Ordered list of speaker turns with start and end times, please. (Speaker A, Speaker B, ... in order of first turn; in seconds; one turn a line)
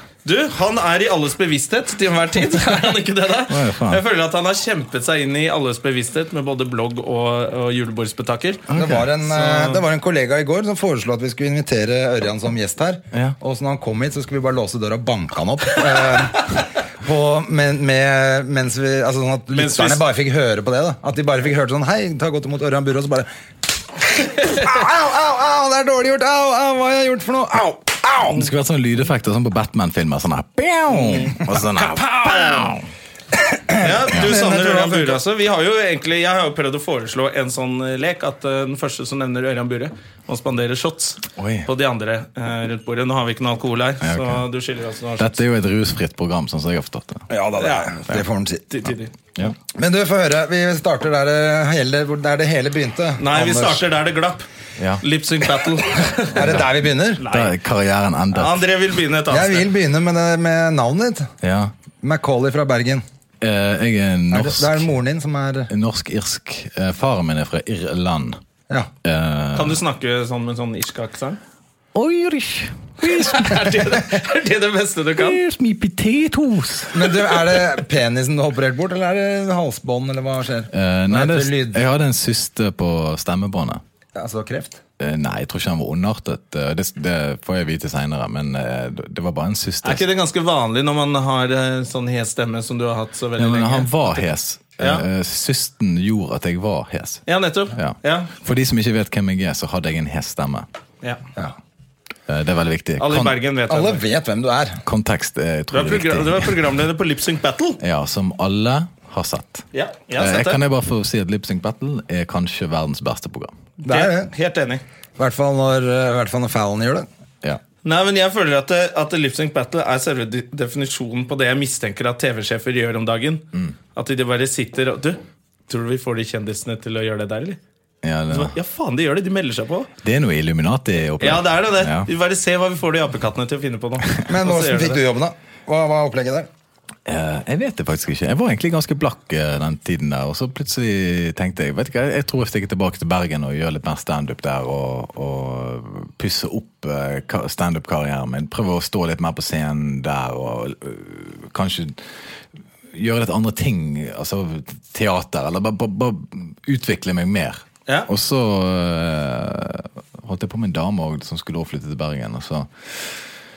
Speaker A: 0.2-8.7
Speaker B: 3.5-4.0
Speaker B: 8.7-9.1
Speaker C: 8.7-28.5
Speaker A: 9.2-9.8
Speaker A: 19.5-20.0
Speaker B: 28.3-32.8
Speaker A: 30.9-31.4
Speaker A: 32.0-32.8
Speaker C: 33.5-35.2
Speaker A: 33.8-45.4
Speaker B: 41.4-41.7
Speaker B: 44.0-44.5
Speaker B: 45.2-47.3
Speaker C: 47.3-48.6
Speaker A: 47.6-48.0
Speaker A: 48.7-49.1
Speaker C: 49.7-53.9
Speaker A: 53.2-54.5
Speaker B: 54.8-55.0
Speaker A: 55.0-56.7
Speaker C: 56.3-57.3
Speaker A: 57.2-57.5
Speaker B: 57.3-58.6
Speaker A: 58.3-59.7
Speaker C: 59.3-61.3
Speaker B: 61.4-61.7
Speaker C: 62.0-63.0
Speaker B: 63.4-64.9
Speaker C: 64.3-65.7
Speaker B: 65.7-68.4
Speaker B: 69.0-69.8
Speaker A: 69.5-71.4
Speaker B: 71.9-73.9
Speaker A: 73.0-75.4
Speaker B: 75.2-77.2
Speaker C: 76.9-81.8
Speaker B: 80.7-83.8
Speaker C: 84.2-84.8
Speaker B: 85.0-90.0
Speaker A: 89.8-94.3
Speaker B: 93.4-100.7
Speaker A: 94.8-95.0
Speaker A: 97.3-98.3
Speaker B: 102.3-103.4
Speaker A: 103.0-104.0
Speaker C: 103.7-104.8
Speaker B: 104.8-106.5
Speaker A: 105.7-107.8
Speaker B: 107.8-109.7
Speaker A: 109.7-110.6
Speaker B: 110.2-113.5
Speaker C: 113.8-114.3
Speaker A: 113.9-114.8
Speaker C: 115.2-117.1
Speaker A: 117.8-123.4
Speaker A: 124.0-127.6
Speaker B: 128.0-128.6
Speaker A: 128.3-129.9
Speaker B: 130.0-132.1
Speaker A: 131.2-135.0
Speaker C: 134.2-136.5
Speaker B: 137.1-152.0
Speaker B: 152.9-163.3